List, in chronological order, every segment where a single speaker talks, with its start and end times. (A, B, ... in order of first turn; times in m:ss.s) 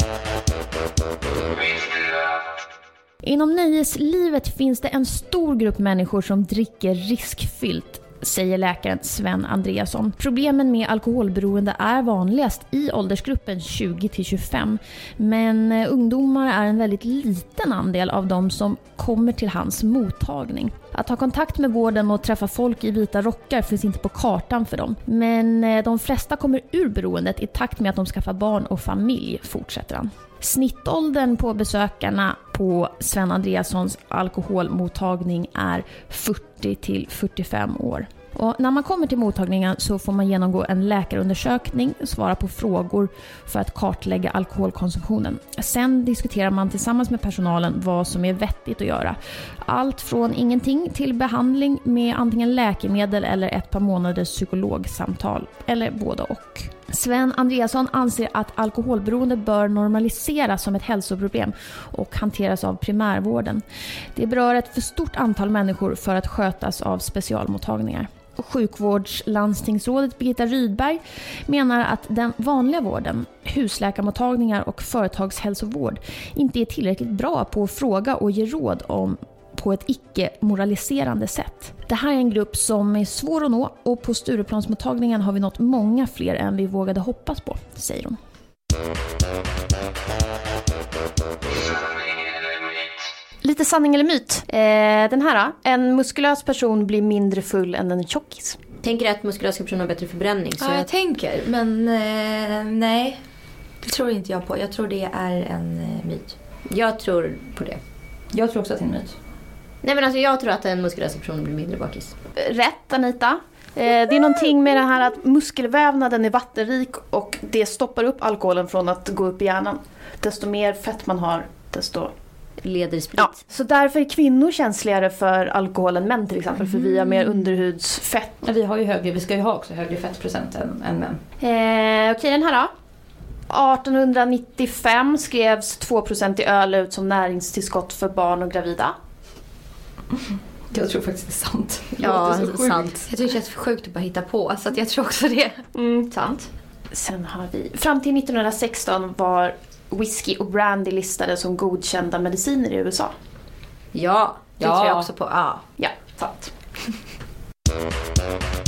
0:03.2-1:03.6 A
1:04.1-1:28.2 A
1:33.4-1:38.6 B
1:38.8-1:40.8 C
1:40.6-1:43.2 D
1:43.8-1:46.4 D
1:46.7-1:47.8 C
1:48.3-1:49.1 E
1:49.8-1:52.1 C
1:52.4-2:02.1 B
2:02.6-2:03.4 C
2:03.2-2:08.4 B
2:08.4-2:11.2 E
2:11.4-2:12.7 B
2:13.5-2:18.9 B
2:20.7-2:22.8 E
2:22.0-2:23.0 C
2:22.1-2:22.6 B
2:23.1-2:26.3 D
2:25.7-2:33.1 B
2:33.9-2:34.6 C
2:34.6-2:35.6 D
2:34.6-2:35.1 E
2:35.8-2:36.5 B